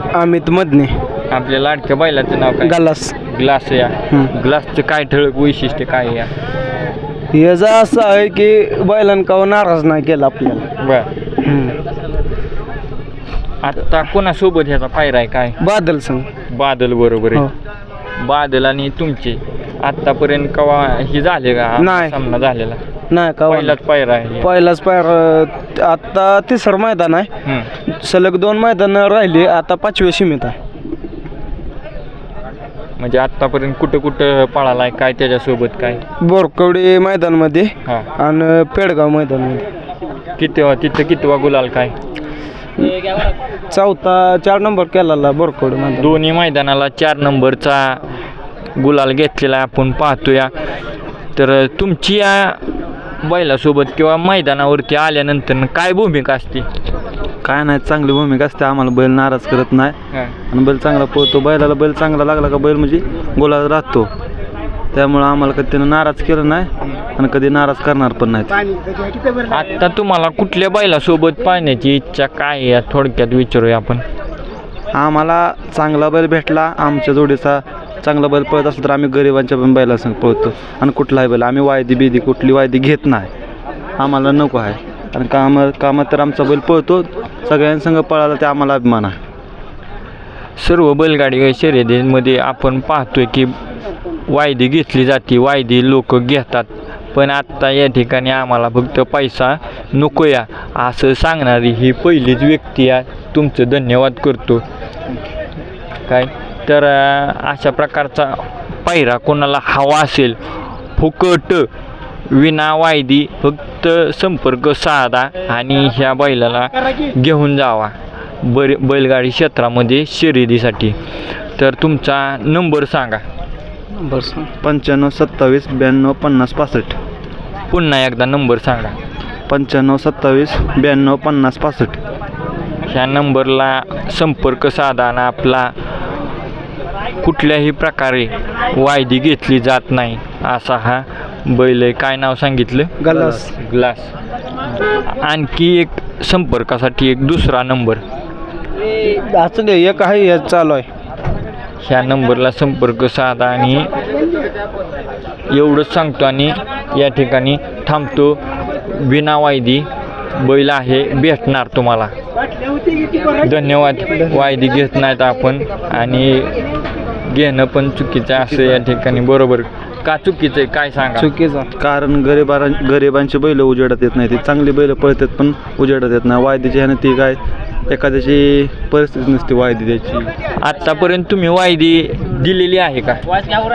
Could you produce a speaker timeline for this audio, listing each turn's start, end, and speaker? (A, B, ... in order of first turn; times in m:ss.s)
0:00.1-0:01.0 A
0:01.3-0:06.3 B
0:02.6-0:03.1 A
0:07.3-0:10.7 A
0:10.8-0:11.1 B
0:11.4-0:11.8 A
0:13.6-0:15.6 B
0:15.6-0:16.3 A
0:16.5-0:17.5 B
0:18.2-0:22.8 B
0:21.8-0:22.2 A
0:23.1-0:23.8 A
0:23.5-0:24.5 B
0:24.4-0:27.3 A
0:27.4-0:27.7 B
0:27.9-0:30.6 A
0:33.0-0:36.0 B
0:36.2-0:39.7 A
0:40.4-0:41.9 B
0:43.7-0:46.2 A
0:46.0-0:48.1 B
0:48.8-0:50.6 B
0:51.4-0:52.7 B
0:53.2-0:56.7 B
0:57.4-1:00.0 C
1:00.5-1:04.1 C
1:04.9-1:08.6 C
1:09.5-1:14.0 B
1:14.9-1:23.3 C
1:24.0-1:29.2 C
1:30.6-1:33.6 B
1:34.3-1:44.6 B
1:46.1-1:50.4 B
1:51.0-1:51.7 B
1:52.3-2:01.0 B
2:01.6-2:03.2 B
2:03.9-2:04.5 A
2:04.6-2:07.0 C
2:07.7-2:09.0 B
2:09.5-2:12.0 C
2:12.8-2:15.8 B
2:17.2-2:24.1 B
2:23.0-2:23.5 A
2:25.0-2:28.0 B
2:29.0-2:30.9 A
2:31.8-2:33.9 B
2:35.5-2:42.1 B
2:43.4-2:46.6 B
2:47.3-2:51.3 B
2:48.4-2:49.0 C
2:51.2-2:51.7 A
2:51.8-2:57.4 C
2:57.9-3:00.3 C
3:00.6-3:03.4 B